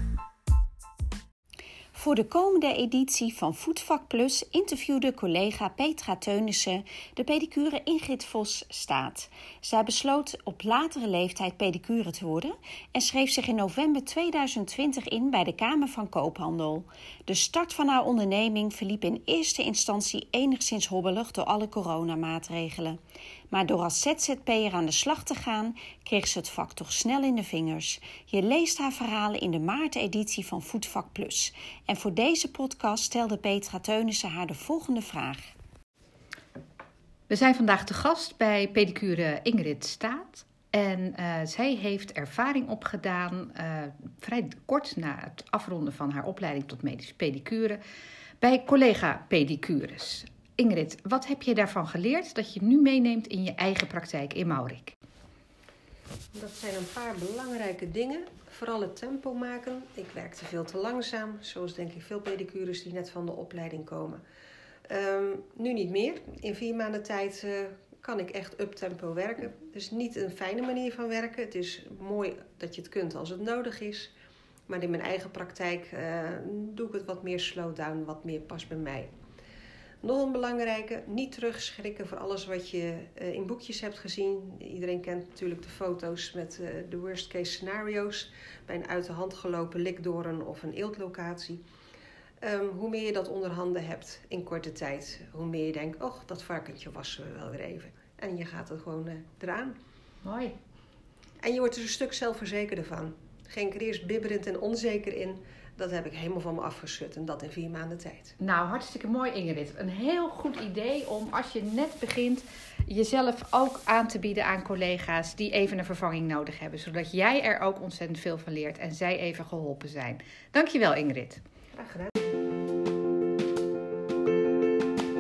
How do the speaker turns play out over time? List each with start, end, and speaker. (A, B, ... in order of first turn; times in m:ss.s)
0:02.0-0:23.0 A
0:23.5-0:35.4 A
0:37.3-0:47.8 B
0:48.4-0:54.9 B
0:56.3-1:04.2 C
1:04.9-1:14.1 C
1:14.7-1:19.1 C
1:20.0-1:31.6 C
1:32.4-1:39.8 C
1:40.2-1:40.6 B
1:41.4-1:48.4 C
1:48.4-2:01.4 B
2:01.8-2:02.1 C